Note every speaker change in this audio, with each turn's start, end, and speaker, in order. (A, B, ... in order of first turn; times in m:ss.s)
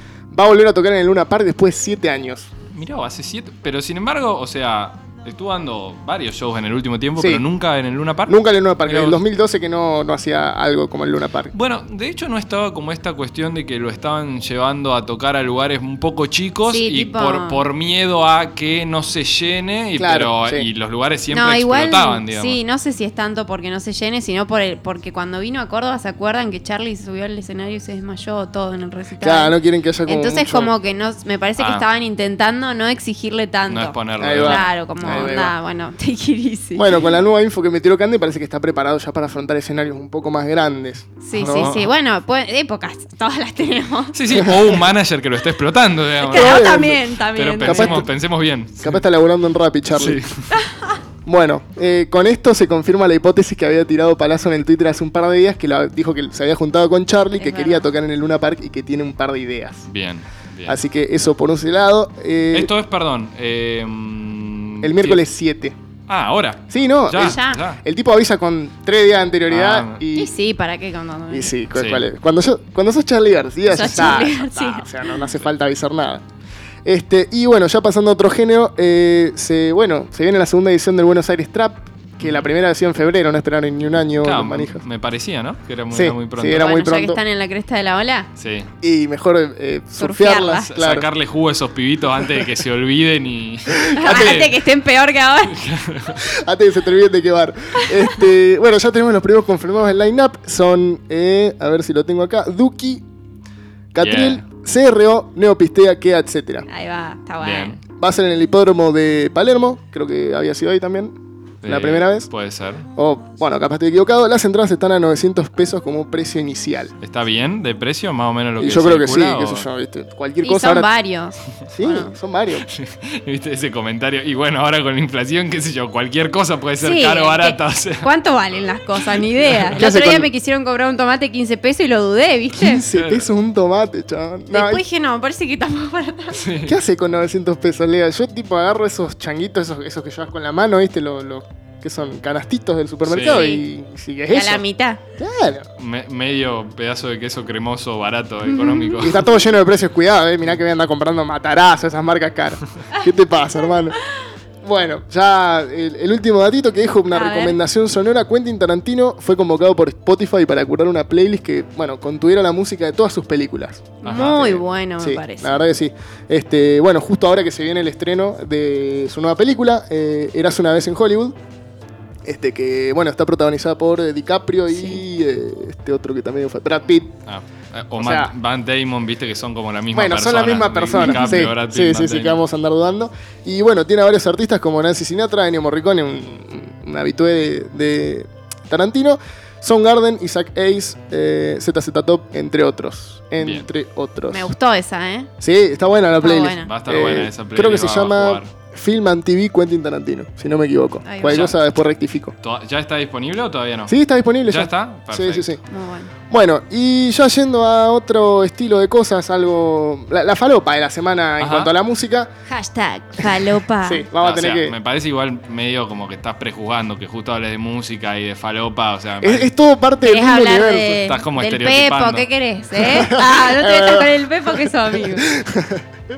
0:00.3-0:02.5 A
0:02.7-0:09.2 B
0:07.2-0:07.4 A
0:08.3-0:11.5 A
0:11.5-0:22.6 B
0:16.6-0:17.6 C
0:20.0-0:20.6 A
0:21.3-0:29.6 C
0:29.2-0:30.7 A
0:30.1-0:36.9 C
0:31.6-0:31.8 B
0:33.7-0:35.3 B
0:34.2-0:35.5 A
0:36.7-0:41.7 A
0:41.2-0:44.5 C
0:41.4-0:41.9 B
0:44.1-0:46.8 B
0:46.2-0:48.0 C
0:46.3-0:47.0 A
0:47.3-0:49.0 B
0:47.6-0:48.1 A
0:48.8-0:50.2 A
0:49.9-0:50.5 B
0:51.2-0:59.8 A
0:57.4-0:57.9 C
0:59.9-1:00.8 B
1:00.7-1:02.7 A
1:02.5-1:05.2 B
1:04.8-1:05.8 A
1:06.1-1:07.8 B
1:06.7-1:10.3 A
1:07.2-1:07.6 C
1:09.5-1:10.0 B
1:10.1-1:11.5 C
1:11.3-1:16.2 A
1:11.7-1:12.1 B
1:13.7-1:15.1 C
1:13.8-1:14.2 B
1:16.8-1:24.8 A
1:22.2-1:22.5 B
1:24.2-1:26.8 B
1:25.9-1:27.2 A
1:26.5-1:28.3 C
1:28.4-1:28.7 B
1:28.8-1:31.0 A
1:30.0-1:30.7 C
1:30.7-1:34.6 B
1:33.7-1:34.4 A
1:33.9-1:35.6 C
1:35.5-1:36.2 B
1:36.2-1:43.0 A
1:43.9-1:46.6 A
1:44.0-1:44.4 B
1:46.7-1:47.8 C
1:47.4-1:47.8 B
1:48.0-1:51.1 A
1:51.6-1:52.9 B
1:51.7-1:52.3 A
1:53.0-1:56.9 A
1:57.0-1:59.7 B
1:58.6-2:00.9 A
2:00.4-2:02.1 C
2:01.7-2:02.6 A
2:02.6-2:08.0 B
2:06.8-2:12.8 C
2:09.1-2:09.8 B
2:09.7-2:10.3 A
2:12.6-2:14.8 A
2:12.9-2:13.3 B
2:14.5-2:16.4 C
2:16.3-2:16.8 B
2:16.6-2:24.6 A
2:23.0-2:23.5 B
2:23.2-2:23.6 C
2:24.3-2:25.0 C
2:25.2-2:25.6 A
2:25.8-2:29.3 B
2:28.4-2:29.2 C
2:29.0-2:34.0 A
2:34.6-2:51.3 A
2:37.1-2:37.6 C
2:44.0-2:44.4 B
2:44.1-2:45.6 C
2:52.2-2:57.1 A
2:54.7-2:55.0 C
2:57.3-3:02.4 B
2:58.0-2:58.3 A
2:59.9-3:14.5 A
3:01.0-3:01.4 C
3:13.4-3:13.7 B
3:14.3-3:15.3 C
3:15.4-3:22.3 A
3:16.2-3:16.7 C
3:16.6-3:18.5 B
3:21.0-3:21.5 C
3:21.2-3:21.6 B
3:22.4-3:25.5 B
3:23.9-3:25.6 A
3:25.7-3:26.1 C
3:26.3-3:32.3 A
3:31.4-3:31.7 B
3:32.5-3:34.1 C
3:33.2-3:34.7 A
3:34.2-3:39.5 B
3:39.2-3:41.0 A
3:40.0-3:45.3 C
3:41.0-3:42.2 B
3:42.8-3:45.8 A